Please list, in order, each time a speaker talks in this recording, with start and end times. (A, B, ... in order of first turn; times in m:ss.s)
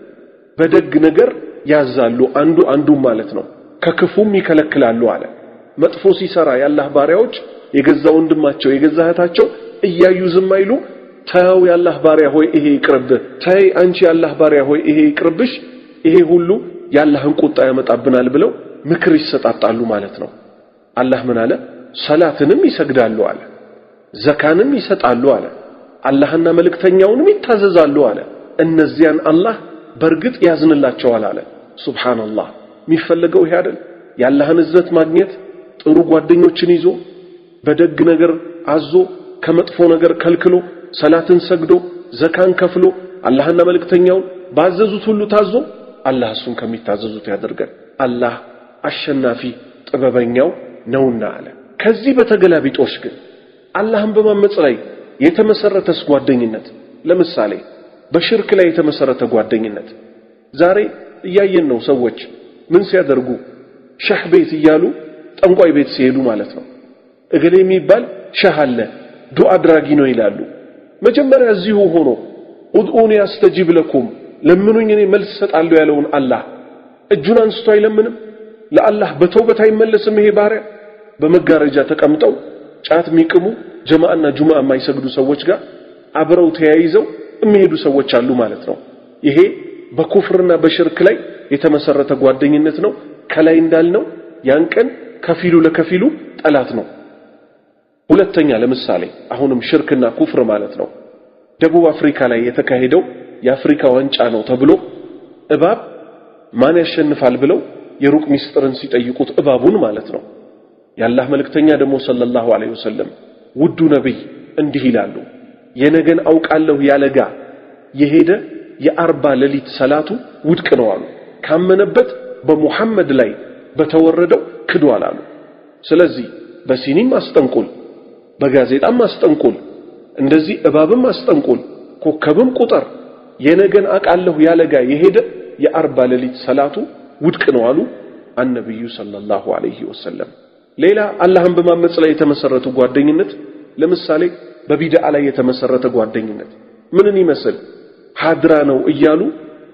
0:00.6-0:20.3 A
0:21.0-0:23.5 A
0:24.2-0:25.5 A
0:26.0-0:37.0 A
0:37.6-0:53.2 A
0:53.8-0:59.9 A
1:00.6-1:03.4 A
1:04.0-1:06.6 A
1:07.3-1:10.5 A
1:11.0-1:16.4 A
1:17.1-1:18.2 A
1:18.7-1:20.6 A
1:21.2-1:25.6 A
1:26.2-1:36.9 A
1:38.1-1:40.9 A
1:41.6-1:44.9 A
1:45.5-1:45.8 A
1:46.5-1:50.2 A
1:51.0-1:55.2 A
1:55.8-1:57.3 A
1:57.9-2:05.2 A
2:05.8-2:07.7 A
2:08.4-2:09.6 A
2:10.2-2:12.9 A
2:13.4-2:27.6 A
2:28.2-2:29.3 A